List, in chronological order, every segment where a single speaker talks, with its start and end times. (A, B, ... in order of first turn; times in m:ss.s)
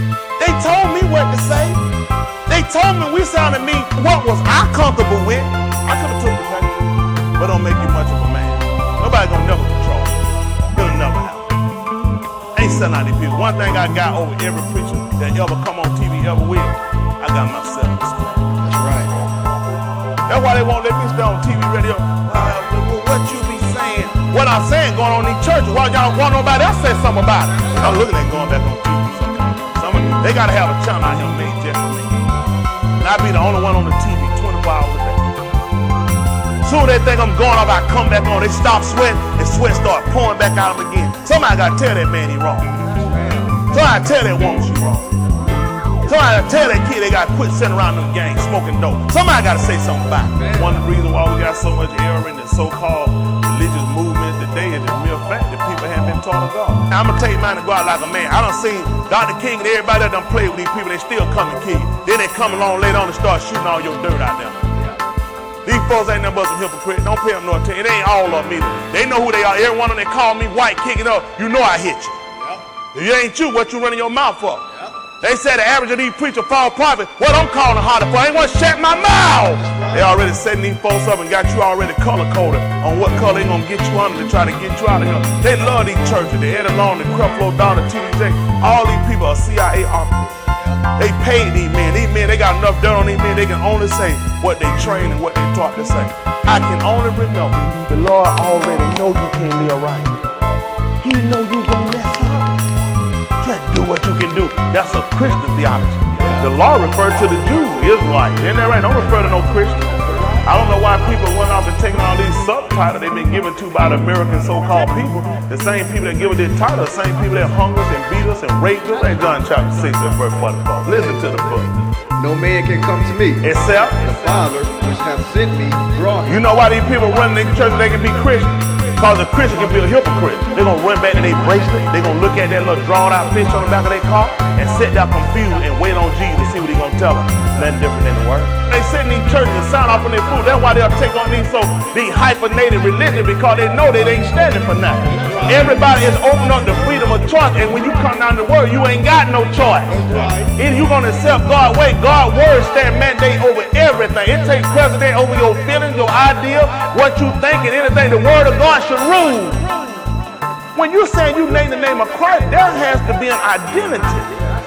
0:00.4-0:01.8 A
0:02.5-0:10.2 A
0:10.7-0:11.5 A
0:12.5-0:18.4 A
0:18.6-0:19.1 B
0:20.2-0:32.1 A
0:33.0-0:35.2 A
0:36.6-0:42.8 A
0:43.0-0:43.5 B
0:43.6-0:45.1 A
0:46.0-1:04.6 A
0:50.4-0:50.8 B
1:05.6-1:12.2 A
1:12.9-1:14.7 A
1:15.2-1:30.4 A
1:19.5-1:20.2 B
1:31.0-1:40.2 A
1:41.0-1:42.5 A
1:43.4-2:01.7 A
2:02.2-2:03.5 B
2:03.4-2:04.0 A
2:04.0-2:06.4 B
2:06.2-2:39.9 A
2:25.2-2:25.6 B
2:29.9-2:30.5 B
2:40.7-2:44.3 A